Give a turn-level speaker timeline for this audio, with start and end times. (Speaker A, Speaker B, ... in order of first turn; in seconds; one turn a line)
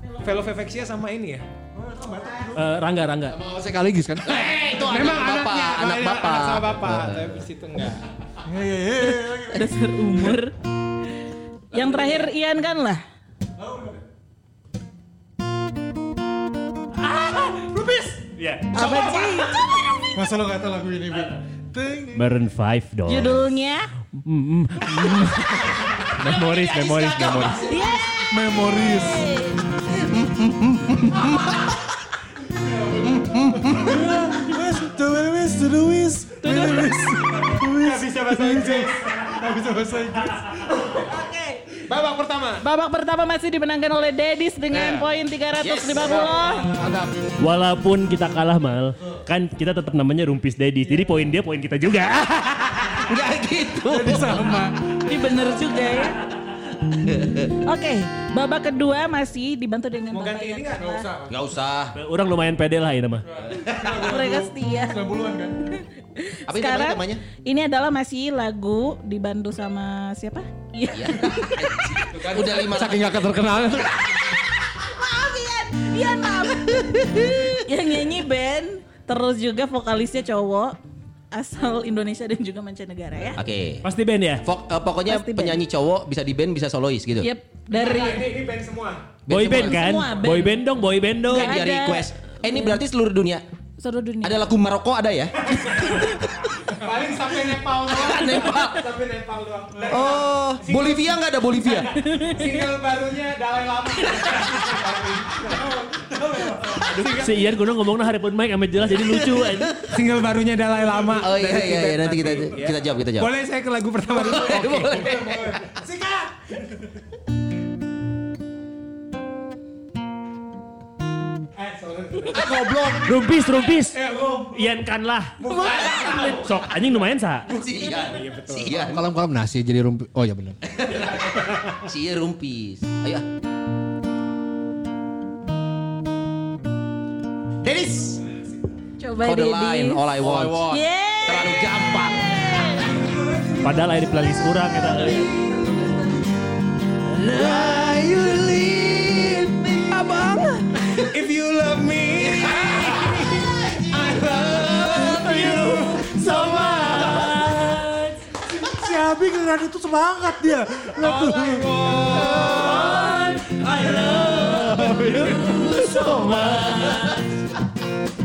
Speaker A: 0.2-1.4
Speaker B: 1.7-2.7
Speaker C: 2.5-3.4
Speaker D: 3.3-4.3
Speaker E: 4.2-7.3
Speaker A: 4.3-8.0
Speaker B: 8.4-9.8
Speaker F: 9.0-10.5
Speaker F: 11.7-13.0
Speaker B: 13.6-14.0
Speaker C: 17.0-18.8
Speaker F: 18.7-20.1
Speaker E: 18.8-19.2
Speaker B: 20.1-22.2
Speaker C: 22.1-23.4
Speaker F: 23.1-23.9
Speaker C: 24.2-27.7
Speaker E: 26.1-28.0
Speaker F: 27.7-29.6
Speaker B: 28.3-29.3
Speaker E: 29.9-31.6
Speaker B: 32.6-40.8
Speaker E: 33.0-34.0
Speaker F: 36.4-37.0
Speaker A: 37.8-39.0
Speaker F: 40.9-41.6
Speaker A: 41.9-42.6
Speaker F: 42.6-46.8
Speaker A: 44.7-45.0
Speaker E: 45.6-46.3
Speaker A: 46.2-47.3
Speaker C: 47.4-53.1
Speaker E: 53.0-54.6
Speaker B: 53.8-54.9
Speaker F: 55.0-56.2
Speaker E: 57.0-57.5
Speaker F: 57.6-61.0
Speaker A: 60.1-61.0
Speaker B: 60.8-61.4
Speaker E: 61.3-61.9
Speaker C: 61.9-63.3
Speaker B: 63.3-65.7
Speaker E: 63.7-64.1
Speaker F: 63.8-65.0
Speaker F: 66.2-71.6
Speaker E: 66.5-67.2
Speaker E: 70.9-73.3
Speaker A: 72.1-72.8
Speaker D: 72.6-74.3
Speaker F: 74.7-80.8
Speaker E: 76.8-77.4
Speaker F: 81.3-83.4
Speaker E: 83.4-83.8
Speaker C: 83.8-84.4
Speaker E: 84.4-87.3
Speaker F: 85.0-85.6
Speaker F: 87.2-88.3
Speaker A: 87.7-89.1
Speaker E: 89.2-90.0
Speaker C: 89.3-91.6
Speaker F: 89.4-90.6
Speaker E: 91.3-93.4
Speaker F: 91.3-92.1
Speaker F: 93.8-94.4
Speaker E: 94.2-96.5
Speaker A: 96.7-101.2
Speaker E: 97.8-98.8
Speaker E: 99.9-102.0
Speaker F: 102.0-102.4
Speaker A: 102.2-106.1
Speaker B: 106.1-107.1
Speaker A: 106.8-107.5
Speaker C: 107.0-109.8
Speaker E: 109.0-109.9
Speaker A: 109.9-115.1
Speaker E: 111.1-113.3
Speaker E: 114.1-115.7
Speaker B: 115.0-116.3
Speaker A: 121.5-122.8
Speaker D: 122.4-122.8
Speaker E: 122.5-123.0
Speaker C: 123.0-124.0
Speaker A: 123.9-124.3
Speaker B: 124.1-124.6
Speaker C: 124.5-125.4
Speaker A: 125.4-126.6
Speaker C: 126.1-127.5
Speaker E: 127.5-129.0
Speaker A: 128.0-129.0
Speaker D: 128.8-130.6
Speaker E: 130.7-133.2
Speaker E: 137.6-138.2
Speaker F: 139.0-140.0
Speaker E: 139.2-140.7
Speaker D: 140.2-140.8
Speaker F: 140.7-143.0
Speaker E: 141.2-142.4
Speaker B: 143.2-143.8
Speaker C: 143.6-145.3
Speaker B: 145.1-145.9
Speaker E: 147.1-151.0
Speaker A: 150.9-157.4
Speaker E: 152.2-157.3
Speaker C: 156.1-158.2
Speaker B: 158.5-161.8
Speaker A: 161.0-163.0
Speaker E: 161.7-163.2
Speaker C: 162.4-167.2
Speaker E: 163.9-167.2
Speaker D: 164.3-165.6